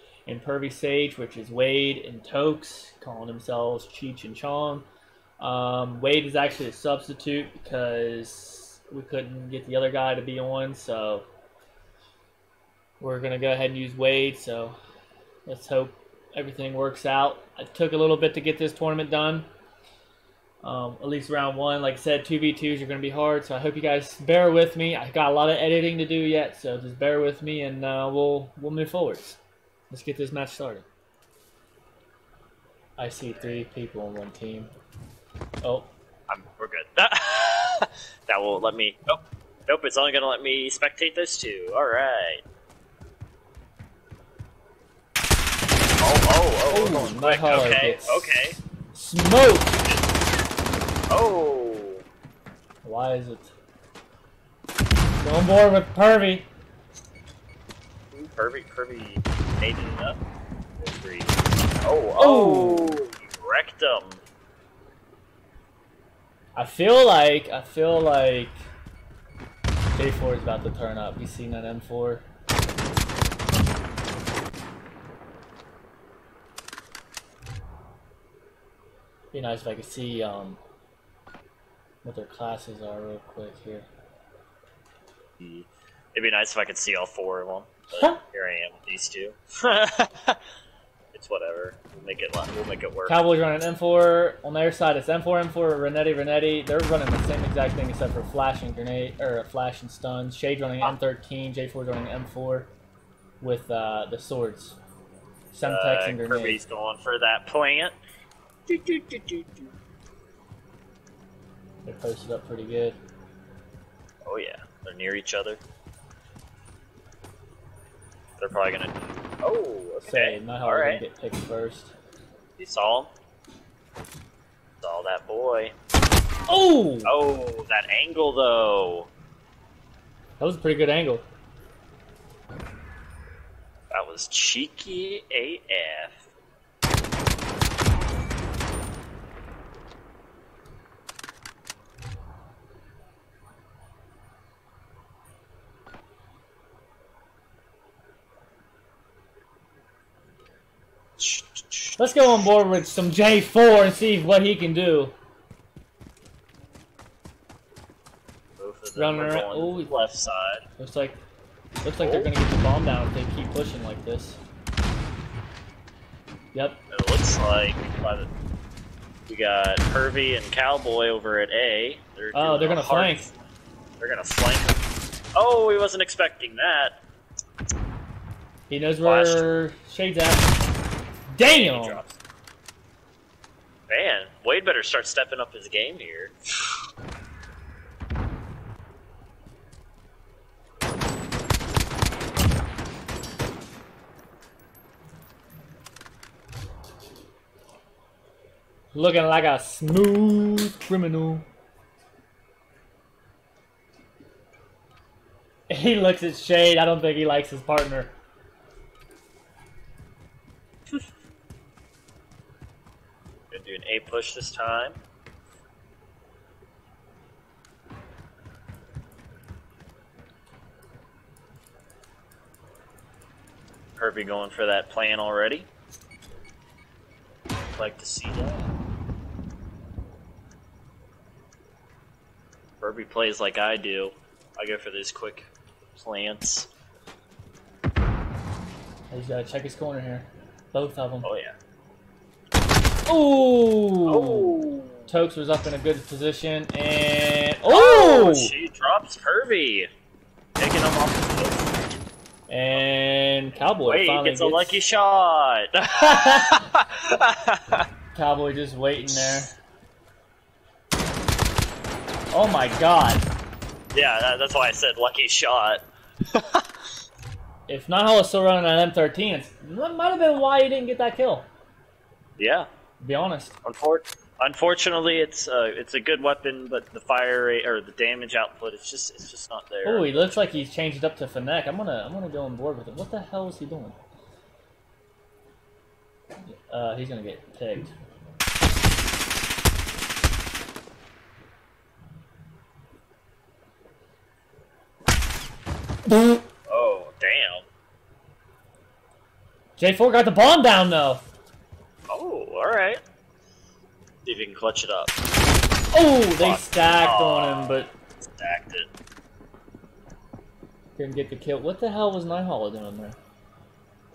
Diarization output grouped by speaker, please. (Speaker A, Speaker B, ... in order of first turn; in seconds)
Speaker A: 0.3-4.9, 5.4-11.3, 13.0-14.8, 15.5-19.5, 20.6-29.4, 29.9-30.9, 33.0-34.7, 35.6-35.9, 46.7-48.3, 48.9-49.8, 52.8-53.5, 55.2-56.5, 62.2-63.0, 66.6-68.7, 70.0-72.2, 79.3-80.6, 82.0-83.9, 87.9-88.2, 93.1-102.7, 103.4-104.8, 105.5-106.6, 111.8-113.0, 120.0-121.9, 126.5-127.1, 130.4-131.2, 152.0-155.1, 158.9-159.9, 160.8-161.2, 161.8-164.4, 166.5-166.8, 172.3-173.3, 178.7-180.5, 181.3-182.0, 198.9-201.5, 205.7-208.1, 239.1-241.3, 243.1-244.6, 245.1-248.5, 252.5-254.8, 256.1-256.6, 258.1-259.5, 262.3-263.2, 267.7-271.5, 273.0-273.6, 279.9-284.0, 286.7-287.9, 299.8-301.2, 305.9-307.9, 311.0-313.2
Speaker B: 36.3-42.4, 46.0-48.6, 49.9-50.1, 51.1-52.0, 58.1-60.2, 60.8-61.3, 61.9-64.2, 85.4-90.4, 91.1-93.2, 105.6-108.0, 108.7-109.7, 114.2-115.6, 118.4-121.0, 122.6-123.1, 124.8-125.7, 127.0-129.1, 133.9-136.2, 151.2-152.0, 158.6-160.7, 162.0-162.3, 166.9-168.3, 169.3-173.3, 174.0-177.0, 179.0-179.5, 181.4-182.2, 183.9-186.3, 213.5-215.0, 224.0-225.7, 227.8-228.7, 232.8-236.7, 241.2-241.5, 244.1-245.1, 247.7-249.9, 250.6-251.7, 253.8-257.9, 263.9-266.6, 272.4-272.7, 273.6-280.6, 296.7-297.6, 302.1-303.0, 304.3-305.1, 306.4-308.9